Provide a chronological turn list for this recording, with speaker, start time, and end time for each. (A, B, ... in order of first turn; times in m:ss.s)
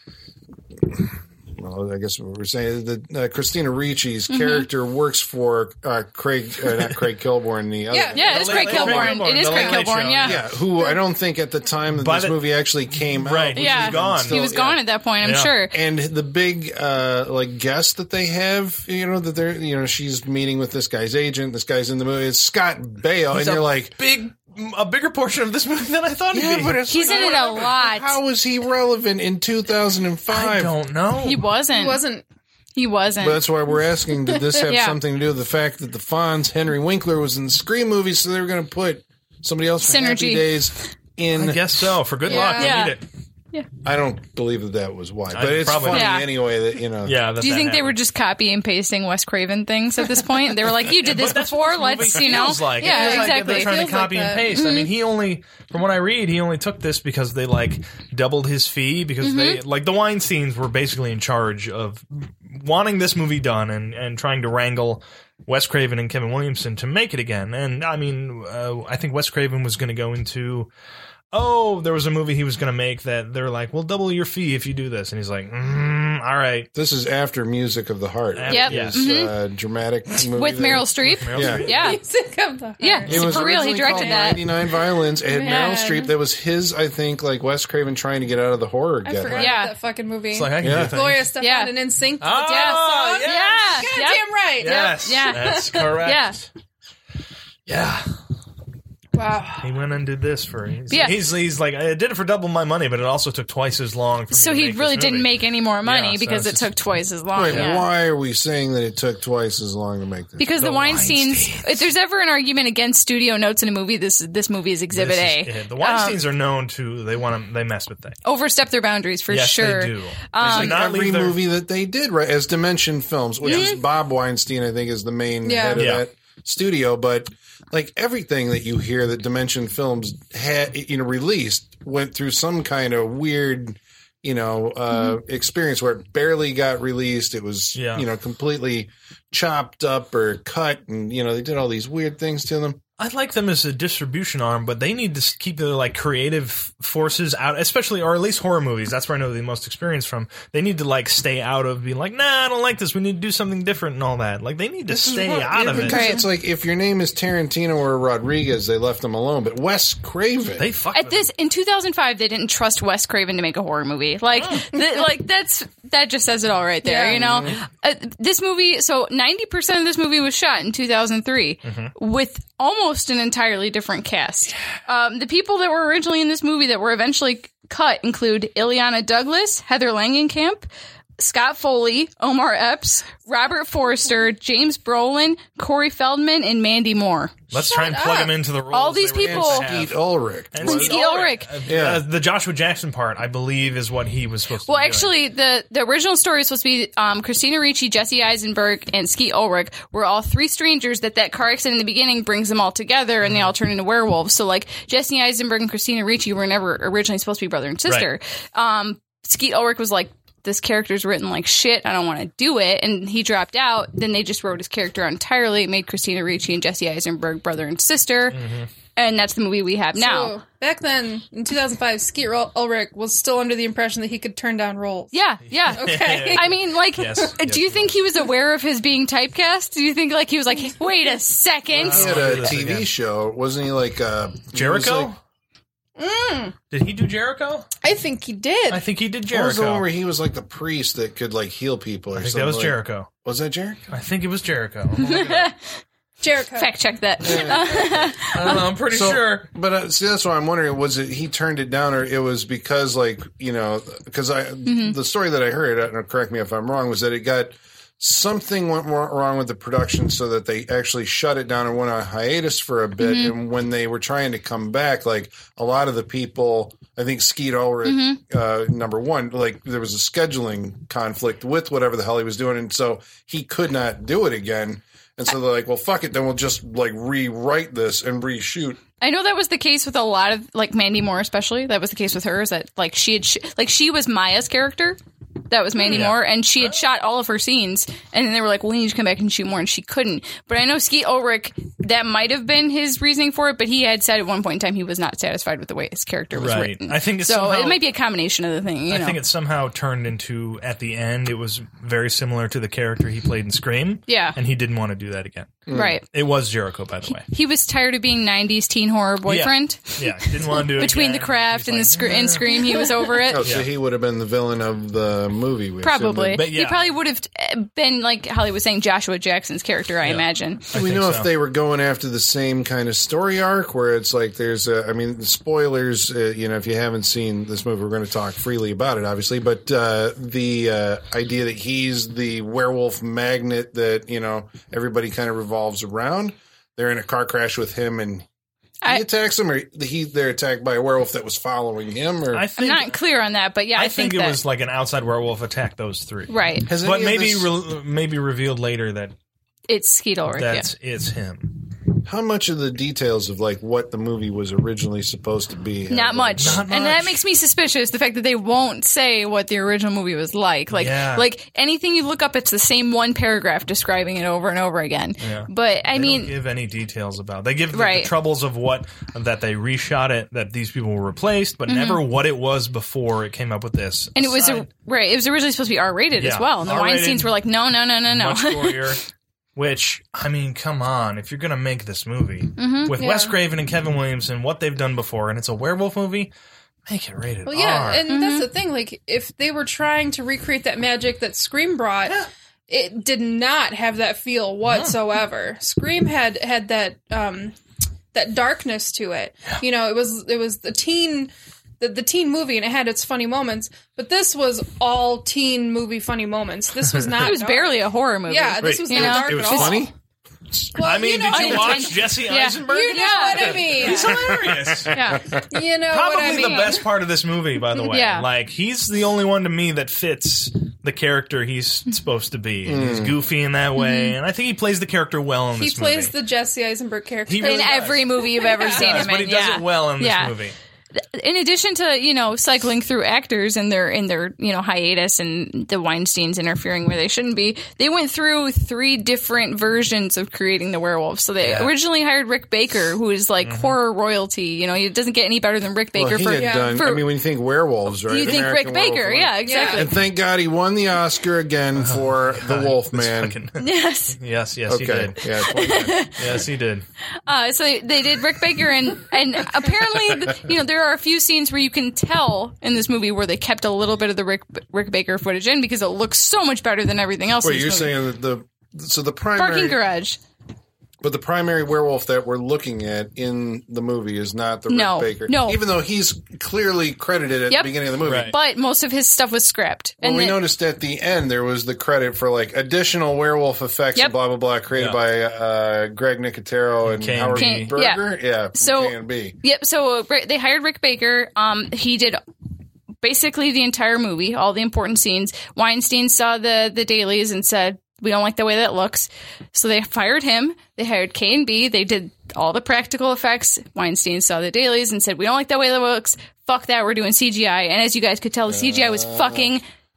0:00.8-0:09.2 A
0:04.3-0:04.6 B
0:07.9-0:09.8 C
0:08.1-0:10.4 B
0:08.2-0:10.4 D
0:10.2-0:14.8 A
0:11.9-0:12.4 D
0:13.1-0:14.4 D
0:13.6-0:15.7 B
0:15.2-0:15.6 D
0:15.7-0:23.9 A
0:23.3-0:27.4 D
0:26.3-0:30.7 A
0:26.9-0:28.2 B
0:30.3-0:31.4 D
0:31.2-0:32.0 B
0:31.7-0:32.2 C
0:32.8-0:33.5 B
0:33.2-0:41.8 A
0:34.5-0:35.0 B
0:39.8-0:40.5 B
0:41.3-0:43.0 D
0:42.2-0:42.9 C
0:42.4-0:43.0 B
0:43.8-0:47.2 A
0:45.3-0:46.2 D
0:45.9-0:46.3 B
0:47.0-0:48.0 D
0:47.4-0:53.8 B
0:50.9-1:10.7 D
0:52.8-0:54.5 C
0:54.5-0:54.9 B
0:59.2-0:59.6 B
1:11.3-1:16.7 D
1:16.7-1:21.7 A
1:18.3-1:19.0 D
1:18.5-1:19.3 B
1:20.2-1:22.0 B
1:21.0-1:21.7 D
1:21.6-1:24.4 C
1:22.8-1:24.4 B
1:23.0-1:29.5 A
1:25.3-1:26.1 B
1:25.4-1:25.9 C
1:29.0-1:35.9 C
1:29.3-1:29.7 B
1:30.3-1:31.3 D
1:30.6-1:31.0 A
1:31.4-1:31.7 B
1:32.2-1:34.0 D
1:32.4-1:36.4 B
1:34.6-1:36.4 D
1:37.7-1:38.1 D
1:39.1-1:39.7 C
1:39.6-1:46.7 D
1:40.9-1:41.1 B
1:44.3-1:47.9 B
1:47.3-1:50.5 A
1:47.5-1:47.7 D
1:50.4-1:56.2 B
1:50.5-1:51.9 D
1:54.9-1:58.2 D
1:58.2-2:00.8 B
1:59.3-2:01.4 D
2:00.4-2:22.8 A
2:03.4-2:03.8 B
2:05.4-2:05.8 C
2:05.7-2:06.0 D
2:17.7-2:18.0 D
2:23.0-2:36.0 D
2:34.9-2:40.7 A
2:35.7-2:36.2 B
2:40.6-2:41.3 D
2:40.9-3:07.4 B
2:44.4-2:44.7 D
2:46.8-2:47.2 C
2:47.1-2:47.6 A
2:51.6-2:51.9 D
3:07.5-3:10.0 D
3:07.5-3:08.3 C
3:08.7-3:09.7 B
3:09.2-3:11.0 A
3:10.5-3:15.1 D
3:10.6-3:11.5 B
3:11.6-3:12.0 A
3:14.7-3:38.4 B
3:23.2-3:23.5 D
3:38.3-3:38.7 D
3:39.0-3:40.4 B
3:40.0-3:45.1 C
3:45.1-3:52.3 B
3:45.6-3:48.0 D
3:45.7-3:46.5 C
3:51.7-3:52.9 D
3:51.8-3:55.1 A
3:54.5-3:55.2 D
3:56.0-3:56.5 C
3:56.7-3:57.7 D
3:57.8-3:58.8 C
3:58.7-3:59.8 D
3:59.3-4:03.8 A
4:02.1-4:03.1 D
4:03.9-4:05.5 D
4:05.0-4:05.6 B
4:06.2-4:06.7 C
4:06.5-4:08.6 B
4:07.2-4:08.2 A
4:08.3-4:09.5 D
4:08.8-4:38.8 A
4:14.6-4:14.9 B
4:23.0-4:23.3 B
4:27.8-4:28.2 B
4:39.0-4:59.2 B
4:45.8-4:46.2 D
4:56.3-4:57.8 D
4:58.9-5:07.2 D
5:04.1-5:04.4 B
5:05.7-5:06.0 A
5:05.7-5:06.0 B
5:07.2-5:13.5 B
5:09.2-5:13.7 D
5:13.3-5:16.4 A
5:15.8-5:20.6 B
5:16.3-5:16.9 D
5:20.0-5:21.3 D
5:20.7-5:38.2 A
5:38.8-5:42.4 A
5:42.3-5:43.0 D
5:42.6-5:44.4 B
5:43.7-5:49.1 D
5:46.3-5:46.7 B
5:46.7-5:47.5 A
5:49.7-5:50.7 B
5:50.3-5:51.6 D
5:52.0-5:56.7 A
5:55.9-6:06.3 B
5:56.4-5:57.2 D
6:00.7-6:01.2 D
6:05.2-6:14.7 D
6:07.7-6:08.1 B
6:11.7-6:12.0 B
6:14.2-6:19.0 B
6:16.2-6:17.3 D
6:18.0-6:19.0 D
6:19.6-6:26.3 D
6:22.6-6:23.0 B
6:23.0-6:23.3 C
6:26.9-6:28.1 D
6:27.4-6:37.6 C
6:28.1-6:28.5 B
6:34.6-6:35.0 D
6:38.1-6:49.9 C
6:47.2-6:49.9 B
6:48.6-6:49.9 A
6:50.5-6:50.8 A
6:50.8-6:52.1 C
6:50.8-6:55.0 D
6:51.3-6:54.1 B
6:52.6-6:54.4 C
6:54.0-6:55.4 A
6:54.9-6:55.3 B
6:55.5-6:56.9 C
6:55.8-7:06.1 D
6:56.2-6:56.7 B
6:57.9-6:58.3 B
7:02.6-7:03.2 A
7:03.8-7:04.2 B
7:05.6-7:09.1 C
7:07.3-7:10.5 D
7:07.4-7:10.3 B
7:10.9-7:27.1 B
7:21.4-7:21.7 D
7:23.4-7:23.8 D
7:25.9-7:33.4 A
7:26.4-7:26.9 C
7:28.0-7:29.9 B
7:29.4-7:29.9 C
7:31.8-7:35.2 D
7:33.6-7:34.2 B
7:34.7-7:36.1 A
7:35.4-7:36.4 B
7:36.1-7:36.8 D
7:37.2-7:47.9 B
7:47.4-7:49.8 A
7:49.4-7:50.2 B
7:51.0-7:58.4 A
7:54.7-7:55.6 B
7:57.5-8:00.4 B
7:58.0-7:58.3 D
8:00.0-8:09.4 A
8:04.7-8:05.0 D
8:06.8-8:07.7 D
8:07.4-8:08.0 B
8:08.5-8:12.2 B
8:13.0-8:29.6 B
8:28.5-8:29.5 A